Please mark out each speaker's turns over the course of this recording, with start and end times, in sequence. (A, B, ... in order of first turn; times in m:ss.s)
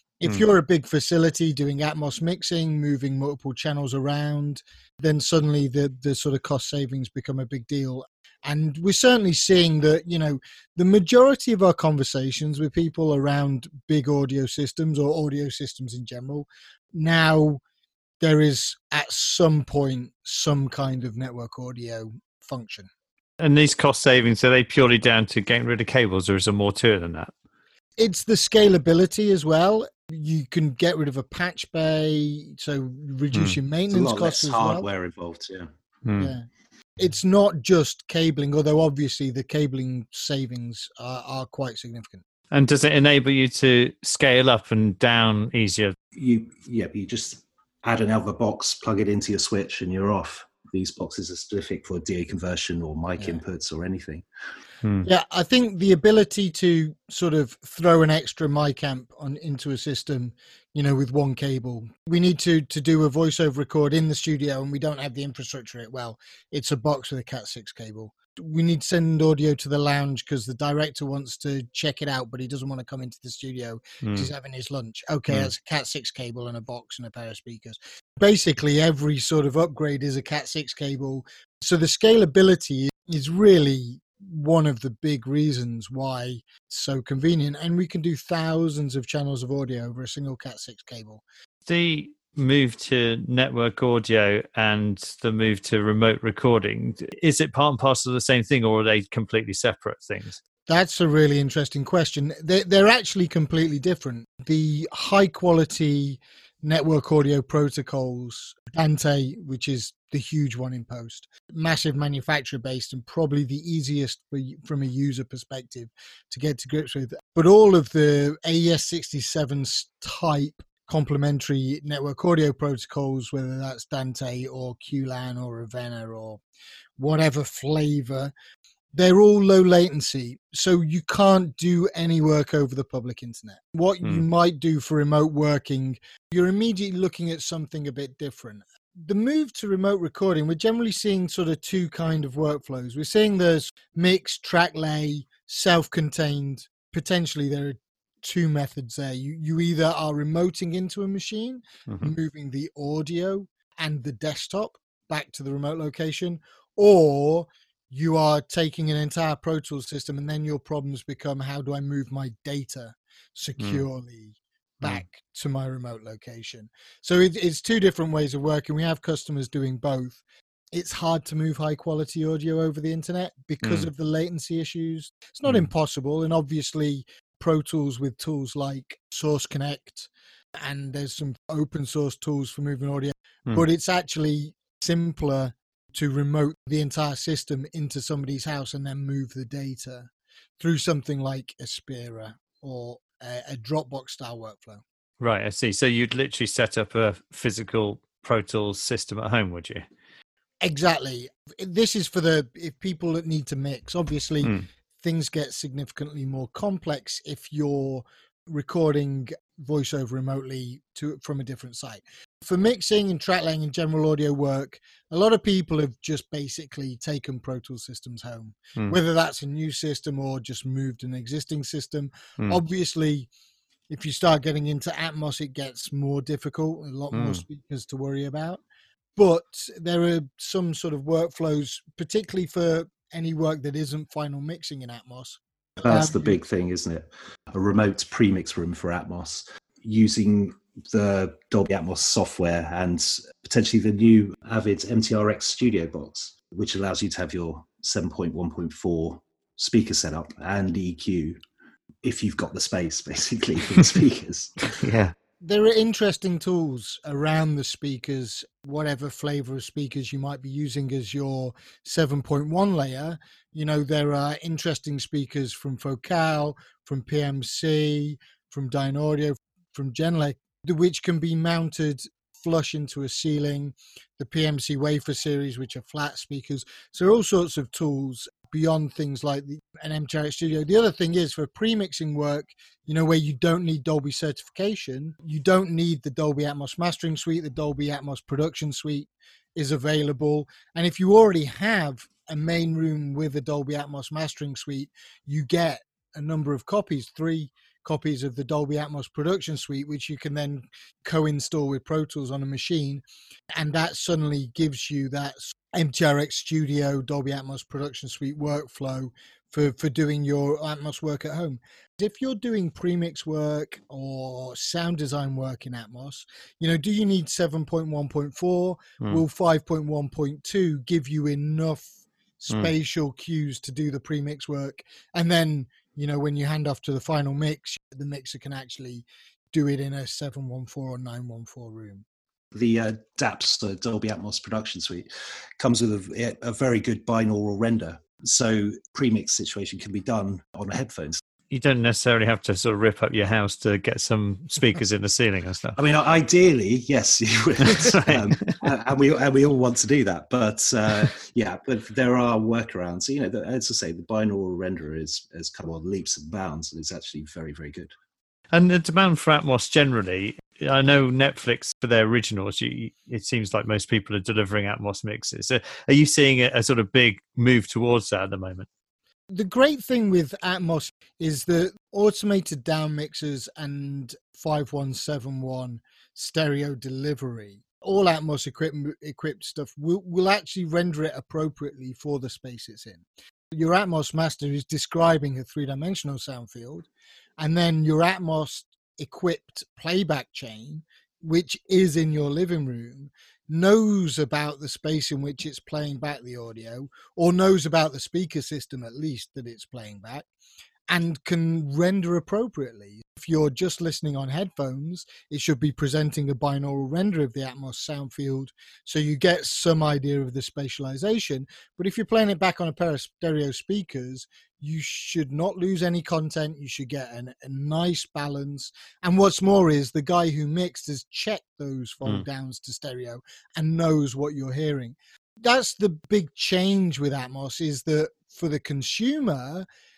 0:00.2-0:17.6 A
0:18.2-0:22.9 A
0:23.4-0:27.3 B
0:28.0-0:34.8 A
0:33.3-0:33.6 B
0:33.9-0:35.7 C
0:36.0-0:36.4 B
0:36.2-0:36.4 A
0:37.0-0:42.2 A
0:42.5-0:45.9 B
0:46.2-0:54.2 C
0:54.8-0:55.1 B
0:55.0-1:31.2 A
1:14.0-1:14.3 B
1:31.6-1:40.4 B
1:40.7-2:06.4 A
2:07.0-2:08.3 A
2:08.9-2:50.2 A
2:31.9-2:32.1 B
2:43.6-2:43.8 B
2:50.7-3:00.1 A
2:53.6-2:53.9 B
3:00.6-3:14.8 A
3:15.2-3:19.8 B
3:20.6-3:43.3 A
3:24.4-3:24.7 B
3:43.9-3:48.6 A
3:47.1-3:47.4 B
3:49.2-3:56.4 A
3:55.8-4:11.4 C
4:12.0-4:14.7 C
4:14.8-4:15.1 B
4:15.4-5:03.0 A
5:03.5-5:21.9 A
5:22.4-5:32.0 A
5:32.5-5:41.2 C
5:41.5-5:45.8 B
5:45.8-5:57.9 C
5:47.6-5:48.6 B
5:58.5-6:08.7 B
6:09.3-6:26.9 A
6:27.4-6:40.3 A
6:40.9-7:09.6 A